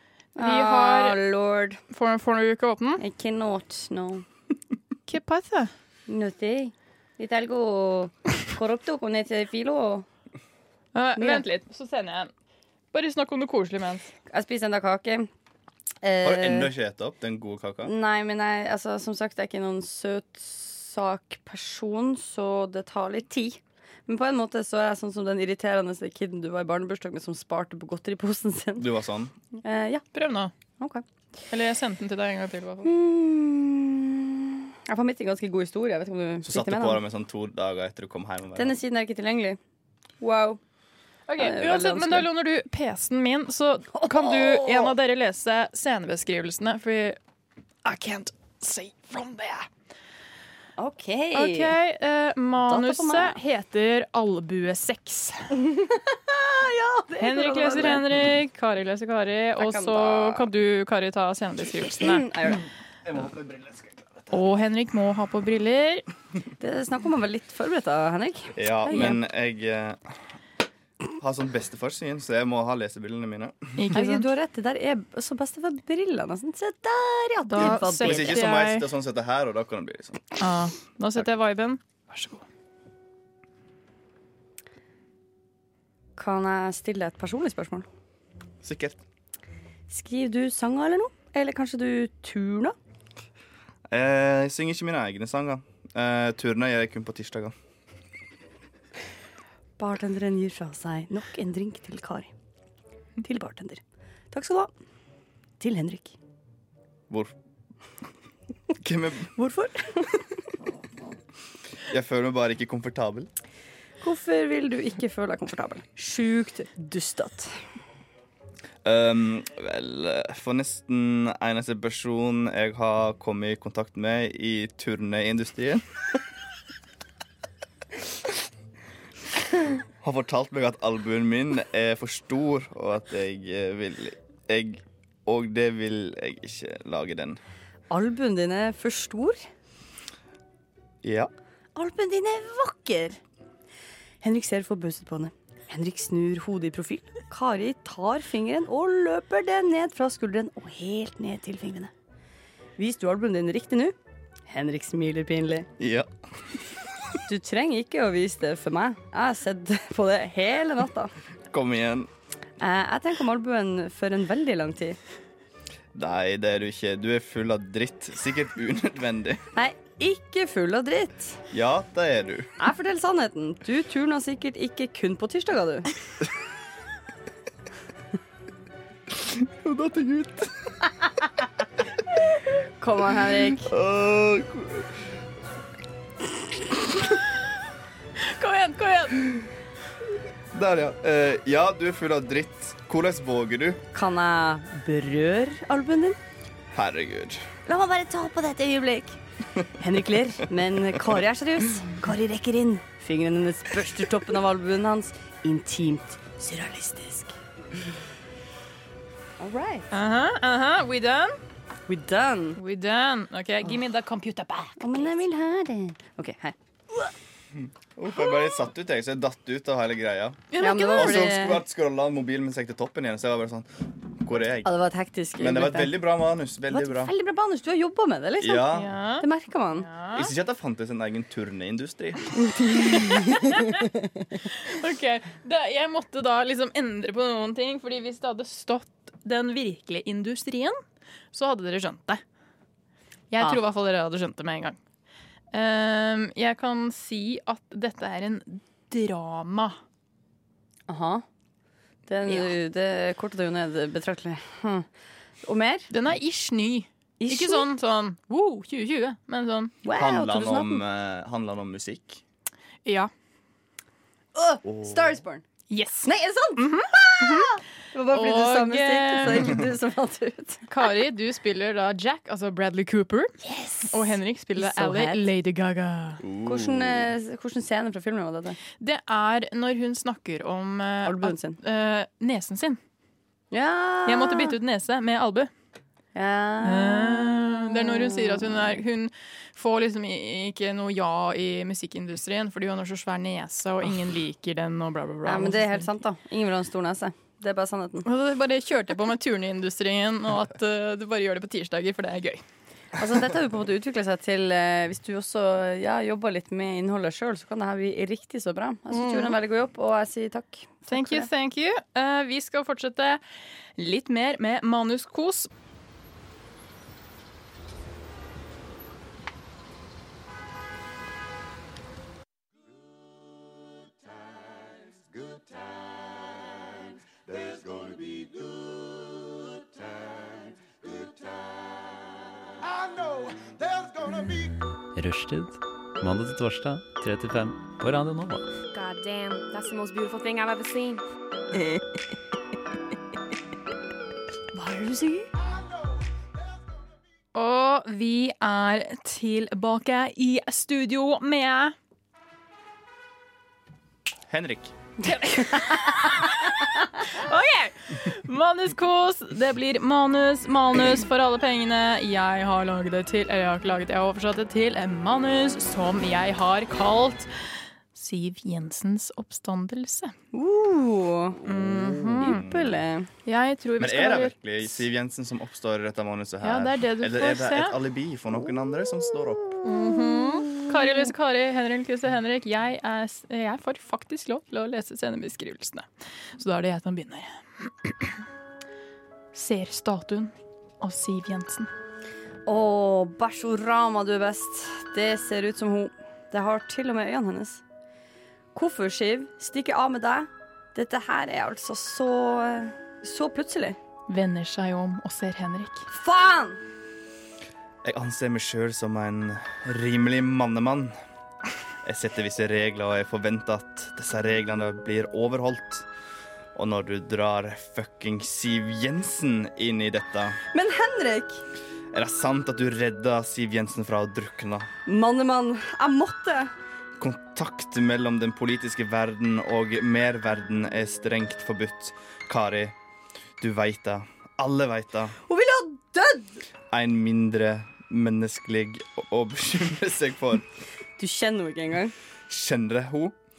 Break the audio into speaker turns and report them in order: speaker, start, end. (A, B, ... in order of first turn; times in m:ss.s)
0:00.4-0:01.2 A
0:00.4-0:01.8 B
0:01.9-0:03.0 A
0:03.0-0:04.2 B
0:05.1-0:05.7 A
0:06.1-0:10.0 B
0:10.9-0:12.3 A
0:11.1-0:11.4 B
0:12.9-0:14.1 A
0:14.3-0:15.3 B
0:16.0-0:16.7 B
0:16.2-0:17.9 C
0:17.8-0:28.9 B
0:28.8-0:29.3 C
0:29.5-0:30.0 B
0:30.1-0:30.5 A
0:30.8-0:31.0 B
0:31.5-0:32.9 A
0:32.8-0:37.0 B
0:36.4-0:38.8 C
0:38.5-0:39.6 B
0:40.2-0:40.6 B
0:41.3-0:47.2 A
0:41.4-0:42.3 B
0:43.9-0:44.9 B
0:47.8-0:49.7 A
0:50.8-0:51.8 B
0:51.3-0:55.5 A
0:52.6-0:53.4 B
0:55.5-0:58.0 B
0:57.2-1:02.5 A
0:59.6-1:00.5 B
1:02.0-1:02.6 B
1:03.0-1:04.3 C
1:04.3-1:06.0 A
1:06.6-1:09.2 B
1:08.6-1:10.2 C
1:11.2-1:13.8 C
1:13.8-1:14.2 A
1:13.9-1:18.4 B
1:17.5-1:18.9 A
1:17.6-1:20.4 C
1:20.4-1:22.4 A
1:26.2-1:27.9 B
1:28.6-1:29.0 C
1:29.9-1:32.7 B
1:33.9-1:37.5 C
1:39.8-1:42.3 B
1:43.2-1:44.7 B
1:45.6-1:46.2 B
1:47.1-1:47.3 C
1:48.8-1:49.3 C
1:49.4-1:50.4 B
1:51.9-1:53.3 C
1:54.0-1:57.7 B
1:58.8-2:05.9 C
2:10.0-2:17.4 C
2:17.9-2:19.4 B
2:21.0-2:21.3 C
2:21.8-2:23.2 B
2:24.2-2:31.9 B
2:32.8-2:34.0 B
2:34.5-2:35.7 B
2:35.8-2:36.5 C
2:37.2-2:41.1 B
2:41.5-2:42.1 C
2:42.6-2:45.0 B
2:45.9-2:49.4 C
2:49.5-2:51.4 B
2:51.5-2:52.5 C
2:52.6-2:55.9 B
2:59.2-3:00.7 C
3:02.8-3:03.7 B
3:03.6-3:04.9 C
3:08.2-3:09.5 A
3:10.5-3:13.8 C
3:13.9-3:16.2 B
3:16.7-3:17.5 C
3:17.6-3:19.2 B
3:19.8-3:27.3 B
3:29.4-3:29.9 B
3:29.9-3:31.4 A
3:31.9-3:32.6 B
3:32.6-3:35.1 A
3:34.8-3:37.1 B
3:37.6-3:44.7 C
3:40.5-3:41.4 A
3:40.6-3:41.6 B
3:44.6-3:46.0 B
3:45.4-3:47.1 C
3:46.7-3:49.9 B
3:48.4-3:48.9 C
3:48.7-3:50.3 A
3:50.1-3:52.4 C
3:52.4-3:54.1 B
3:54.6-4:00.8 A
4:01.3-4:02.2 A
4:03.3-4:04.8 A
4:05.5-4:09.8 A
4:10.9-4:11.2 B
4:12.1-4:14.8 B
4:15.4-4:15.9 B
4:15.9-4:19.7 A
4:17.2-4:17.7 B
4:19.8-4:20.8 B
4:19.9-4:22.2 C
4:22.8-4:23.1 A
4:24.3-4:25.4 B
4:24.6-4:25.2 C
4:25.7-4:27.6 A
4:26.0-4:30.7 B
4:28.1-4:29.6 A
4:30.7-4:36.2 A
4:33.4-4:35.3 B
4:36.2-4:37.1 C
4:36.4-4:38.6 B
4:38.8-4:42.8 A
4:41.0-4:41.6 B
4:43.5-4:44.5 B
4:44.0-4:45.5 A
4:46.1-4:48.8 B
4:46.6-4:55.9 A
4:55.2-4:58.0 B
4:58.0-5:02.4 A
5:03.0-5:11.3 B
5:08.9-5:09.3 A
5:10.9-5:13.2 A
5:13.8-5:15.5 A
5:34.0-5:38.5 D
5:38.7-5:41.0 E
5:44.6-5:45.2 B
5:47.3-5:51.7 A
5:54.3-5:54.7 C
5:55.0-6:10.1 A
5:55.3-5:56.3 B
6:10.3-6:11.4 B
6:11.4-6:12.4 A
6:11.5-6:12.8 C
6:12.2-6:13.1 B
6:13.2-6:14.8 A
6:13.8-6:19.5 C
6:16.4-6:17.8 A
6:19.6-6:20.8 B
6:19.6-6:28.2 A
6:29.3-6:31.7 A
6:32.4-6:37.6 B
6:38.5-6:43.8 B
6:44.1-6:45.9 A
6:45.9-6:46.6 B
6:47.8-6:51.0 C
6:51.8-6:55.8 C
6:56.5-7:00.4 C
7:00.5-7:01.4 B
7:01.9-7:04.7 C
7:04.8-7:06.5 B
7:07.0-7:12.8 C
7:13.4-7:15.2 C
7:15.3-7:16.4 B
7:16.7-7:20.4 C
7:21.0-7:21.9 B
7:22.3-7:23.2 C